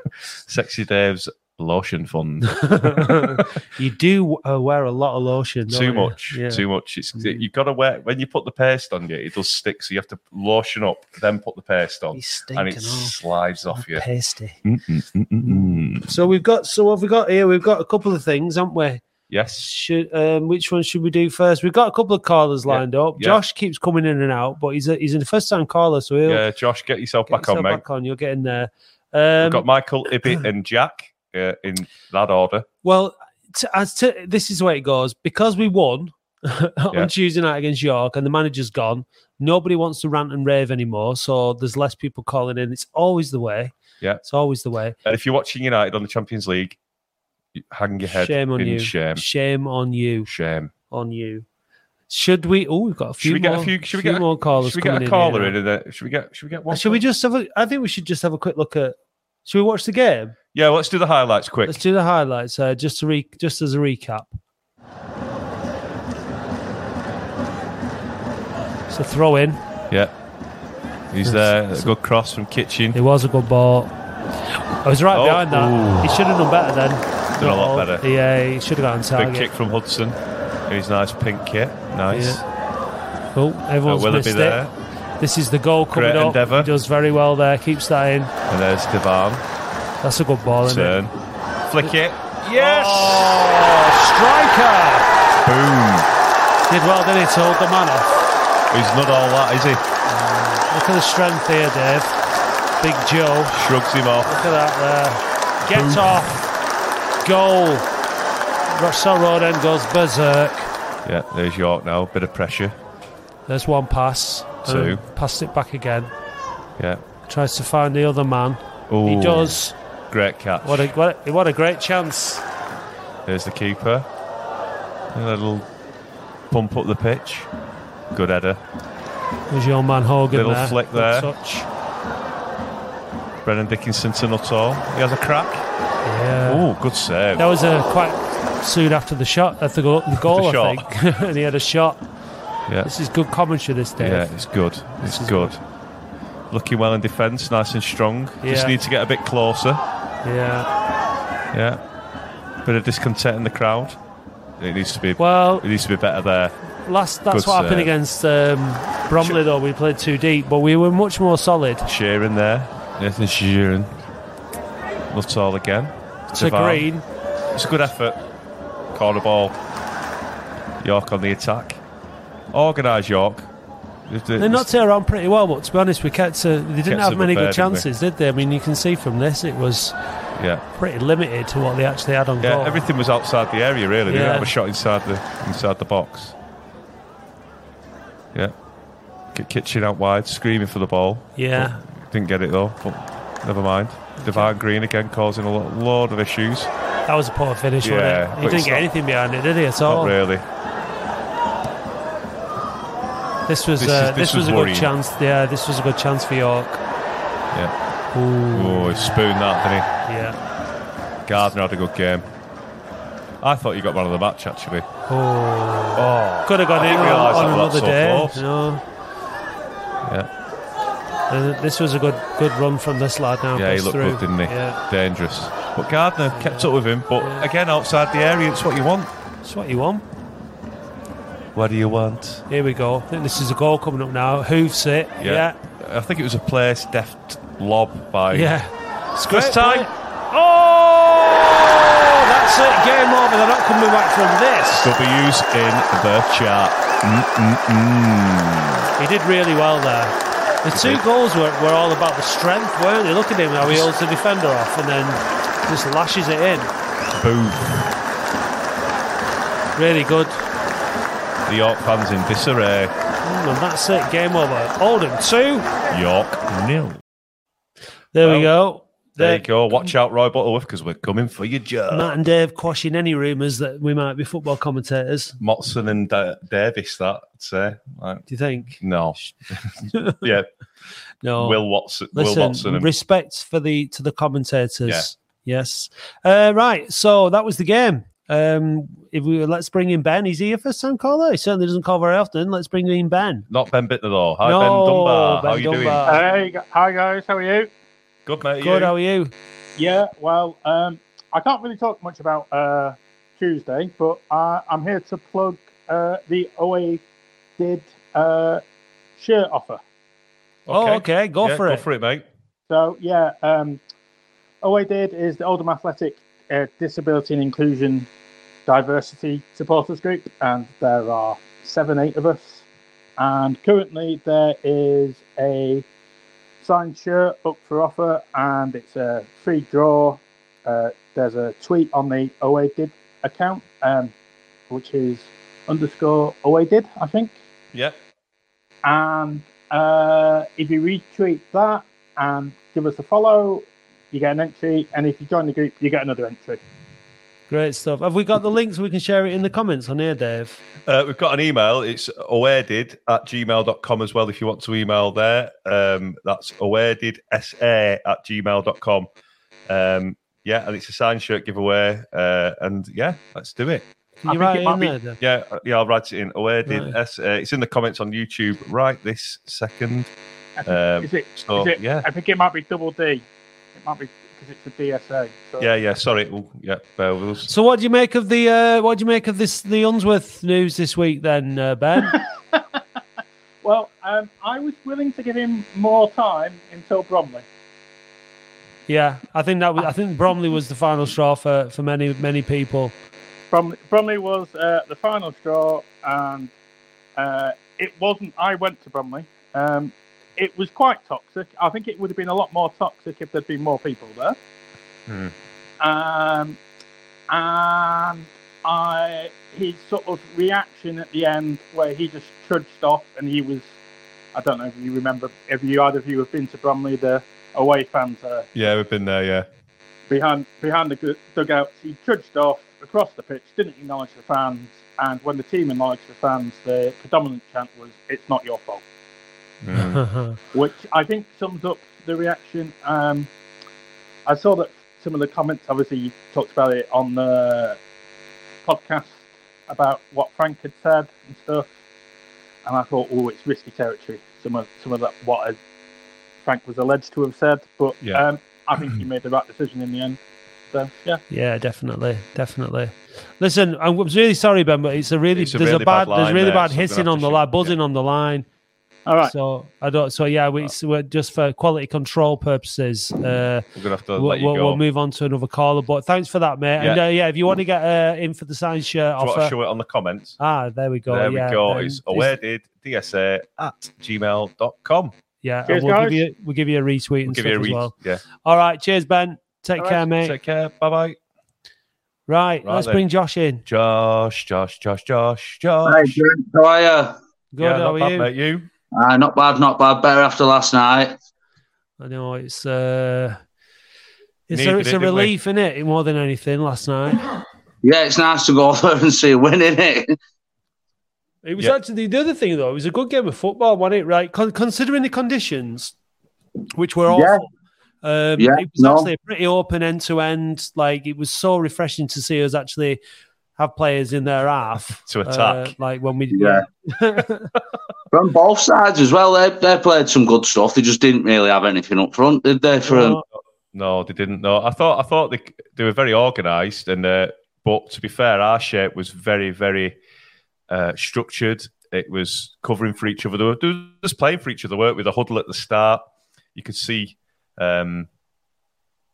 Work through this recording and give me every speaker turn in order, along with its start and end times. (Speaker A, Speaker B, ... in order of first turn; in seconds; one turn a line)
Speaker A: 0.5-3.3
Speaker B: 3.2-7.4
Speaker A: 5.7-14.1
Speaker B: 12.1-13.2
Speaker B: 13.7-14.6
Speaker A: 14.6-16.1
Speaker B: 15.5-19.0
Speaker A: 19.3-19.7
Speaker B: 19.6-26.4
Speaker A: 22.6-23.4
Speaker A: 26.2-27.8
Speaker B: 27.3-29.6
Speaker A: 29.4-32.7
Speaker B: 32.8-45.0
Speaker A: 45.0-46.8
Speaker A: 47.5-49.3
Speaker B: 48.1-50.3
Speaker A: 50.2-50.7
Speaker B: 50.9-51.5
Speaker B: 52.1-55.5
Speaker A: 53.2-57.0
Speaker B: 56.7-60.3
Speaker A: 60.5-61.8
Speaker B: 61.6-64.3
Speaker B: 68.9-69.6
Speaker A: 69.9-73.0
Speaker B: 71.2-72.0
Speaker B: 72.9-79.5
Speaker A: 75.1-76.2
Speaker A: 77.3-78.3
Speaker A: 79.1-82.5
Speaker B: 82.1-82.5
Speaker B: 83.3-88.3
Speaker A: 83.8-84.7
Speaker A: 85.9-86.7
Speaker A: 88.5-89.5
Speaker B: 90.0-91.0
Speaker A: 90.5-93.2
Speaker B: 91.8-95.1
Speaker A: 95.4-96.1
Speaker B: 96.7-98.1
Speaker A: 98.7-99.8
Speaker B: 100.1-102.2
Speaker B: 102.8-103.5
Speaker A: 103.5-104.5
Speaker B: 104.2-106.6
Speaker A: 105.6-106.2
Speaker B: 107.2-107.9
Speaker B: 108.7-110.7
Speaker A: 111.0-112.8
Speaker B: 113.5-116.1
Speaker A: 114.6-115.0
Speaker A: 116.8-117.0
Speaker B: 117.2-119.8
Speaker A: 118.9-120.9
Speaker B: 120.6-122.5
Speaker A: 123.2-124.1
Speaker A: 125.1-125.8
Speaker A: 126.5-127.5
Speaker A: 128.1-128.6
Speaker B: 129.5-131.7
Speaker A: 130.3-131.3
Speaker A: 133.4-135.7
Speaker B: 136.0-145.6
Speaker A: 136.4-137.5
Speaker A: 140.2-140.9
Speaker A: 142.7-142.9
Speaker A: 144.0-145.8
Speaker A: 146.5-149.8
Speaker B: 148.4-148.8
Speaker B: 150.2-150.7
Speaker A: 151.5-152.0
Speaker A: 152.6-154.0
Speaker A: 154.6-158.0
Speaker B: 155.2-155.7
Speaker B: 156.7-161.9
Speaker A: 161.8-164.1
Speaker A: 165.1-169.6
Speaker B: 166.3-167.1
Speaker A: 170.8-171.8
Speaker A: 172.5-173.5
Speaker A: 174.1-174.7
Speaker B: 174.4-180.0
Speaker A: 176.8-177.9
Speaker A: 180.3-180.7
Speaker B: 180.6-182.8
Speaker A: 182.4-186.4
Speaker B: 184.1-184.5
Speaker A: 188.3-188.7
Speaker A: 189.2-196.7
Speaker B: 191.3-191.8
Speaker B: 194.2-194.5
Speaker B: 197.1-200.1
Speaker A: 197.8-199.1
Speaker A: 199.8-200.4
Speaker B: 203.5-206.8
Speaker A: 203.8-204.9
Speaker A: 207.5-210.1
Speaker B: 208.1-209.2
Speaker B: 210.0-210.4
Speaker A: 211.2-212.4
Speaker A: 213.4-214.9
Speaker B: 215.1-218.8
Speaker A: 215.9-218.4
Speaker A: 220.1-220.3
Speaker B: 221.3-224.8
Speaker A: 223.5-229.1
Speaker B: 226.3-227.5
Speaker B: 229.4-230.0
Speaker A: 231.5-232.4
Speaker B: 232.5-235.6
Speaker A: 235.2-239.9
Speaker B: 238.3-244.9
Speaker A: 244.8-248.7
Speaker B: 249.0-256.7
Speaker A: 250.7-251.0
Speaker A: 253.6-253.9
Speaker A: 257.1-258.0
Speaker B: 259.7-260.5
Speaker A: 261.4-262.9
Speaker B: 263.2-265.7
Speaker A: 265.9-267.0
Speaker B: 268.1-269.9
Speaker A: 268.2-268.6
Speaker A: 269.1-272.2
Speaker B: 271.9-275.4
Speaker A: 275.4-280.5
Speaker B: 278.3-278.8
Speaker B: 279.9-280.2
Speaker B: 281.2-293.5
Speaker A: 281.4-282.9
Speaker A: 293.5-296.0
Speaker B: 294.4-296.2
Speaker C: 296.0-297.7
Speaker A: 298.2-299.0
Speaker B: 298.6-299.3
Speaker C: 299.8-307.0
Speaker C: 307.6-308.6
Speaker C: 309.2-309.8
Speaker A: 310.7-312.2
Speaker B: 310.7-311.9
Speaker C: 312.7-313.8
Speaker C: 314.6-318.1
Speaker C: 318.6-322.6
Speaker C: 323.2-325.8
Speaker C: 326.6-334.1
Speaker C: 334.7-337.4
Speaker C: 338.8-346.6
Speaker B: 347.5-350.6
Speaker A: 350.9-359.1
Speaker A: 359.7-363.9
Speaker B: 364.2-365.2
Speaker C: 364.3-364.9
Speaker A: 365.2-370.1
Speaker B: 366.7-366.9
Speaker C: 370.6-375.7
Speaker A: 370.6-372.1
Speaker A: 375.6-377.5
Speaker B: 377.5-382.1
Speaker C: 382.1-382.6
Speaker C: 383.6-387.4
Speaker B: 388.9-392.9
Speaker C: 393.5-396.5
Speaker C: 397.2-404.4
Speaker A: 405.1-405.3
Speaker C: 405.8-406.6
Speaker C: 407.3-413.7
Speaker C: 414.3-418.5
Speaker A: 418.5-419.5
Speaker C: 420.1-428.8
Speaker A: 429.6-430.2
Speaker B: 430.0-430.4
Speaker C: 430.5-433.3
Speaker C: 434.2-437.8
Speaker C: 438.6-441.7
Speaker C: 442.6-445.6
Speaker C: 446.4-450.2
Speaker C: 450.7-451.2
Speaker B: 451.3-458.4
Speaker A: 455.3-457.8
Speaker C: 459.1-459.3
Speaker B: 459.2-469.5
Speaker A: 463.7-464.8
Speaker A: 466.8-467.0
Speaker A: 469.2-470.4
Speaker B: 470.4-472.3
Speaker A: 471.1-475.1
Speaker B: 475.4-480.3
Speaker C: 475.7-476.2
Speaker A: 477.2-478.2
Speaker C: 479.8-480.0
Speaker A: 480.1-481.2
Speaker B: 482.3-483.6
Speaker A: 482.6-483.1
Speaker A: 483.6-486.2
Speaker D: 485.8-487.1
Speaker B: 487.5-488.3
Speaker A: 487.6-488.7
Speaker D: 488.9-491.2
Speaker B: 492.0-493.4
Speaker B: 494.5-497.2
Speaker A: 494.5-495.3
Speaker D: 497.8-500.2
Speaker B: 501.4-505.9
Speaker B: 506.7-507.5
Speaker D: 507.1-507.4
Speaker B: 508.0-513.0
Speaker D: 508.4-509.1
Speaker B: 513.6-517.5
Speaker A: 515.0-515.8
Speaker D: 516.3-516.6
Speaker D: 518.1-523.2
Speaker B: 522.9-523.2
Speaker A: 523.7-530.0
Speaker A: 530.7-538.1